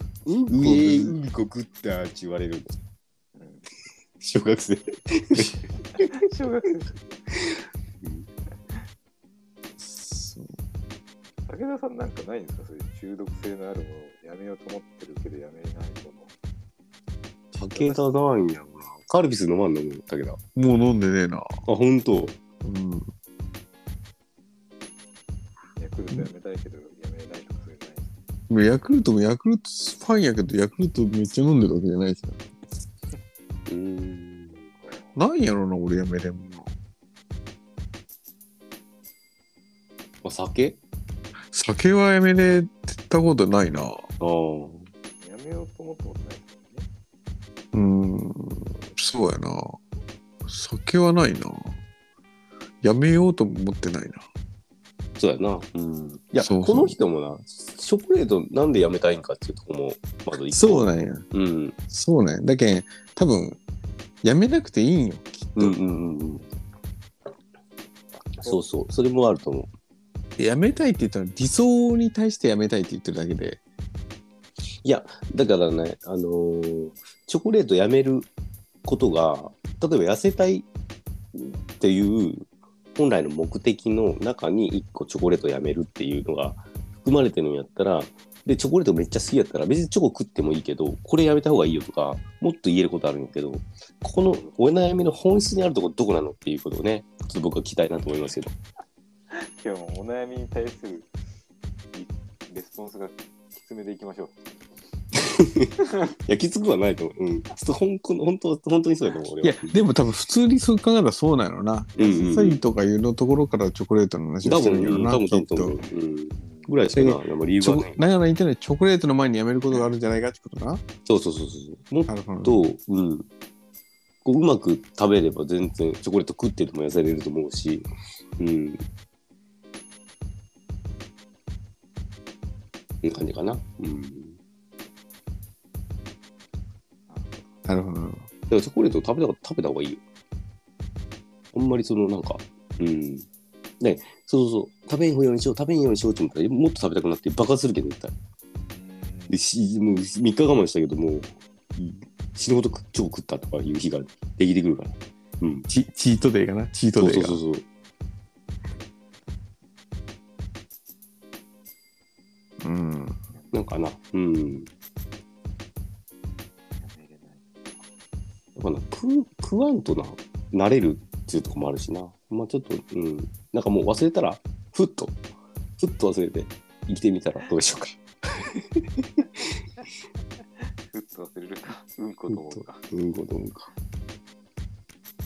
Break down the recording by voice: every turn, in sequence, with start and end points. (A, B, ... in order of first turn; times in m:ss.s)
0:00.2-0:01.2 A
0:00.4-0:02.7 B
0:03.3-0:03.6 C
0:04.2-0:06.1 B
0:06.0-0:07.0 C
0:08.0-0:08.3 B
0:09.8-0:10.5 A
0:11.4-0:16.3 C
0:17.5-0:20.4 B
0:17.7-0:18.0 C
0:20.5-0:21.5 A
0:21.6-0:22.4 B
0:22.6-0:23.1 A
0:25.8-0:28.1 C
0:28.5-0:32.4 A
0:33.7-0:34.7 B
0:34.8-0:35.1 C
0:35.1-0:36.7 A
0:40.2-0:40.8 B
0:41.5-0:44.0 A
0:44.2-0:44.9 B
0:45.2-0:46.9 C
0:47.7-0:49.8 A
0:50.4-0:51.7 A
0:52.8-0:54.2 A
0:55.2-1:01.8 B
0:56.4-0:57.0 A
1:00.5-1:01.2 A
1:01.9-1:03.6 A
1:04.2-1:05.7 A
1:05.6-1:06.4 B
1:08.4-1:09.7 B
1:10.4-1:13.6 A
1:14.8-1:18.3 B
1:18.8-1:20.7 B
1:21.3-1:38.5 B
1:39.3-1:41.1 C
1:41.9-1:44.4 C
1:45.2-1:45.7 B
1:46.3-1:49.8 B
1:49.4-1:55.8 A
1:52.0-1:52.6 B
1:54.4-1:58.0 B
1:55.8-1:56.8 C
1:56.9-2:00.8 A
2:01.0-2:03.3 B
2:02.1-2:02.6 A
2:04.2-2:07.8 B
2:08.4-2:08.8 B
2:13.0-2:14.4 B
2:17.1-2:17.5 C
2:17.6-2:18.3 A
2:18.5-2:20.0 B
2:21.5-2:23.3 B
2:23.8-2:28.1 B
2:28.7-2:29.4 C
2:29.3-2:35.7 B
2:35.7-2:37.4 A
2:37.0-2:37.6 B
2:42.6-2:43.2 A
2:43.3-2:43.6 C
2:43.5-2:44.7 B
2:46.8-2:47.8 C
2:48.6-2:55.2 B
2:55.8-2:59.2 B
3:00.9-3:02.8 C
3:02.3-3:03.7 B